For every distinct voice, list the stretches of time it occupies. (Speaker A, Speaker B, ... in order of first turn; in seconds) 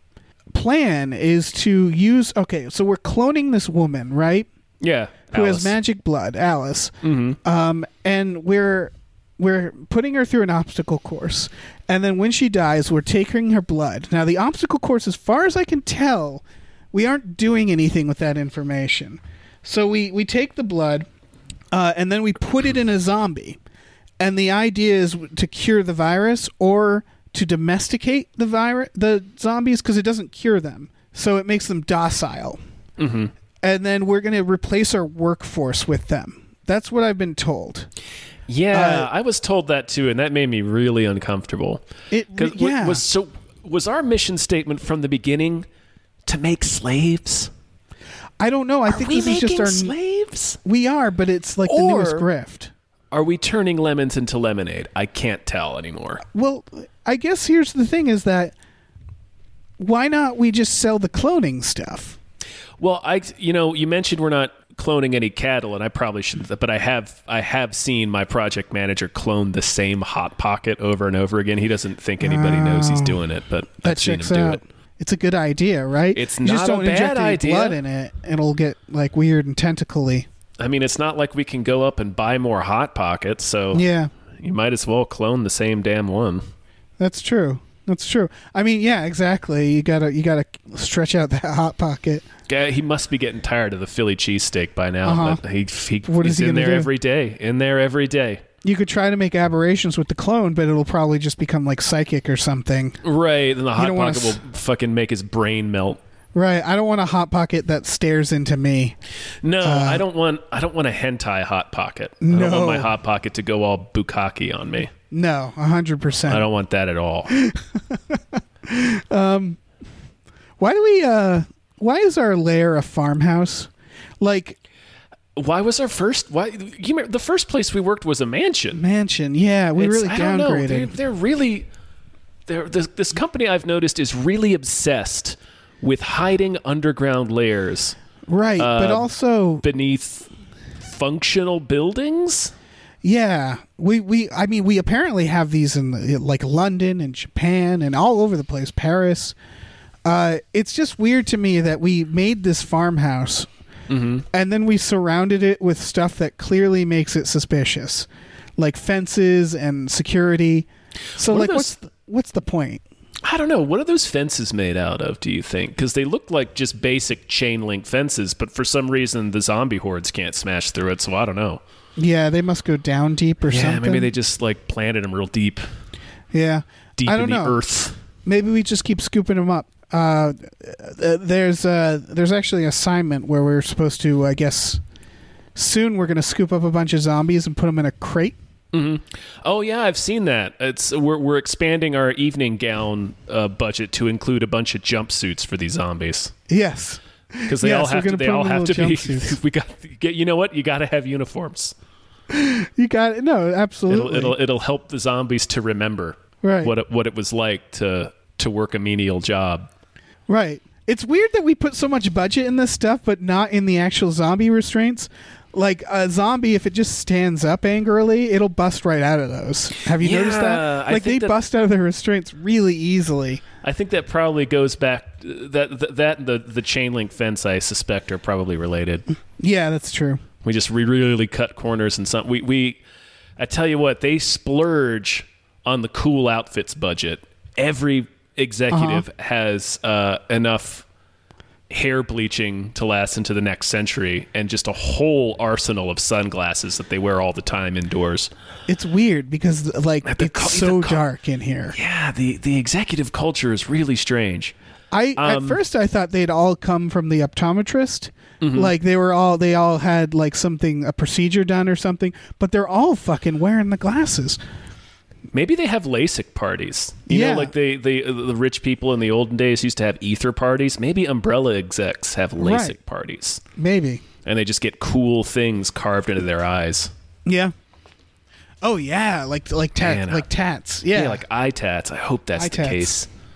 Speaker A: 0.5-4.5, 5.3-21.1, 21.7-23.6, 24.2-32.6, 33.6-37.9, 38.7-39.1, 42.1-43.0, 48.4-49.9, 50.6-52.7, 56.3-58.5, 59.8-62.2, 72.2-73.2, 73.8-80.3, 83.7-84.1, 87.0-92.2, 95.0-95.4, 96.0-96.9, 98.6-103.0, 103.8-104.4, 106.3-109.0, 109.6-110.0, 112.2-112.9, 115.1-116.5, 117.3-119.6, 120.6-124.6, 128.8-130.9, 138.3-139.6, 143.0-149.4, 150.1-153.5, 154.3-162.8, 172.0-174.1, 176.3-177.6, 178.2-184.8, 185.6-188.4, 196.5-199.4, 202.3-204.4, 206.4-206.7, 210.3-223.4, 229.4-230.2, 238.7-239.0, 248.7-251.7, 254.9-264.4, 267.1-267.5, 272.4-272.8, 273.6-274.0, 277.3-277.5, 278.6-281.2, 282.4-283.0
Speaker B: 4.8-5.7, 7.0-7.4, 33.0-33.3, 38.5-45.7, 46.3-47.5, 48.9-50.6, 51.6-52.3, 53.1-56.2, 62.8-74.6, 76.1-77.8, 80.6-83.9, 84.4-86.4, 92.5-98.4, 103.0-106.0, 109.4-114.9, 116.3-117.3, 125.4-128.8, 129.8-131.7, 132.5-138.0, 138.6-139.1, 139.6-140.3, 140.8-142.5, 153.9-154.2, 161.2-161.7, 163.2-171.6, 173.5-175.6, 177.0-177.9, 188.7-196.3, 197.5-201.8, 203.9-209.7, 220.0-221.4, 223.6-229.1, 230.4-232.8, 233.4-240.9, 241.7-248.3, 250.0-251.0, 251.7-254.5, 255.2-255.6, 258.4-258.7, 265.3-273.4, 274.2-276.9, 279.8-280.3, 280.9-283.1